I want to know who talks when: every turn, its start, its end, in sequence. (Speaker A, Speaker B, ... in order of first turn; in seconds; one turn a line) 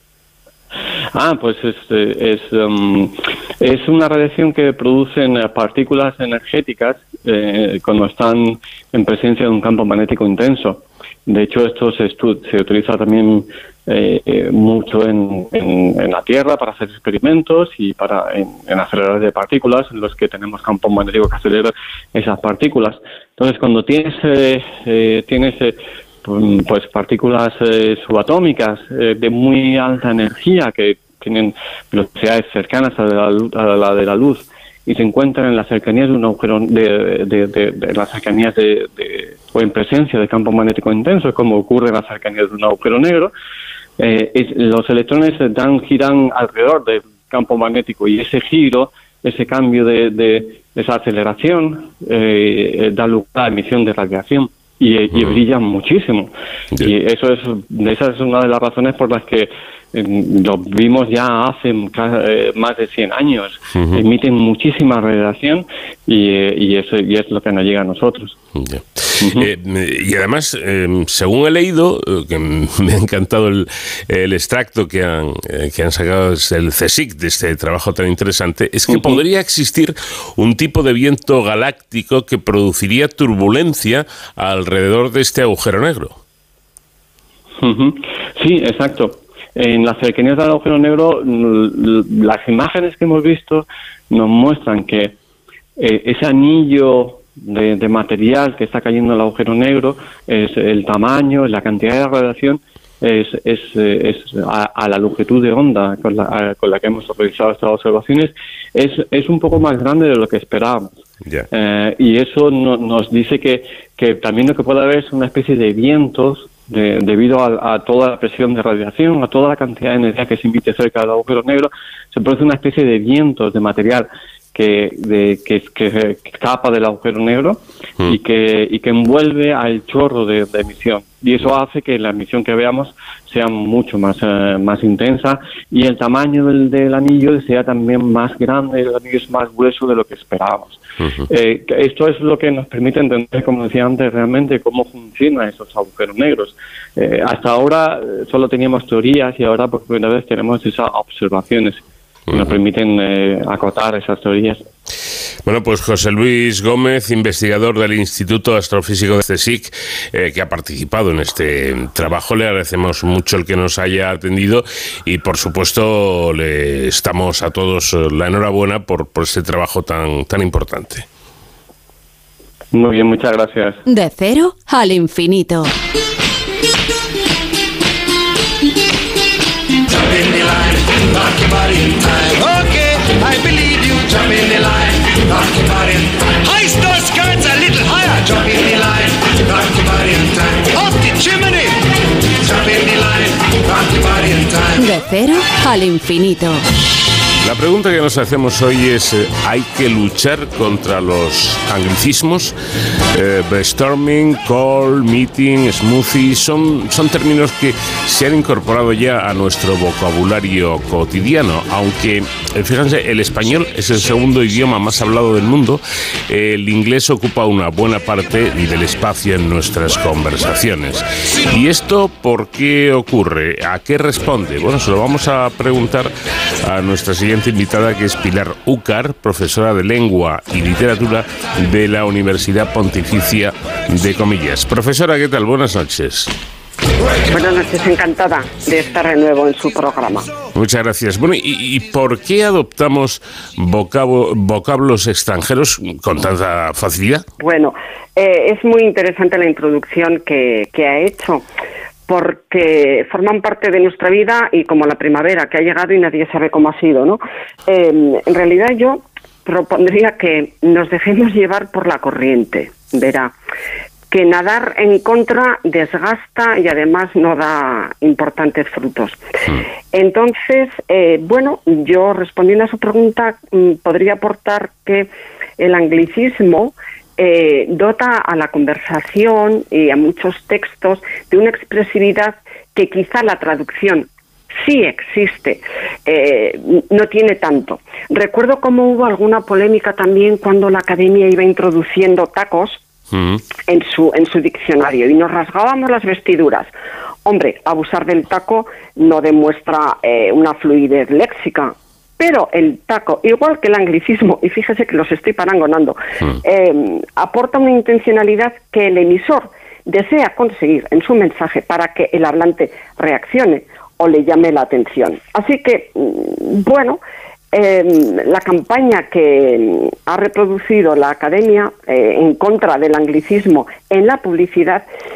Speaker A: 1.1-43.3
Speaker A: 44.0-56.3
Speaker B: 55.1-55.4
Speaker A: 56.8-68.3
Speaker B: 63.7-64.0
Speaker B: 68.5-86.2
Speaker A: 69.2-69.5
Speaker A: 78.9-79.2
Speaker A: 87.6-95.1
Speaker A: 95.8-110.9
Speaker A: 111.5-151.8
Speaker B: 141.0-141.3
Speaker B: 152.3-152.6
Speaker A: 152.3-154.6
Speaker B: 155.4-171.1
Speaker A: 172.7-173.8
Speaker C: 173.8-175.7
Speaker C: 194.7-196.6
Speaker B: 197.4-202.5
Speaker B: 203.1-226.1
Speaker B: 226.6-236.3
Speaker D: 237.3-240.3
Speaker B: 240.5-247.2
Speaker D: 247.4-251.4
Speaker D: 252.1-263.4
Speaker D: 264.1-269.2
Speaker D: 269.9-284.1
Speaker D: 284.6-292.8
Speaker B: 293.1-293.4
Speaker D: 293.7-296.7
Speaker D: 297.2-317.0
Speaker D: 317.5-324.9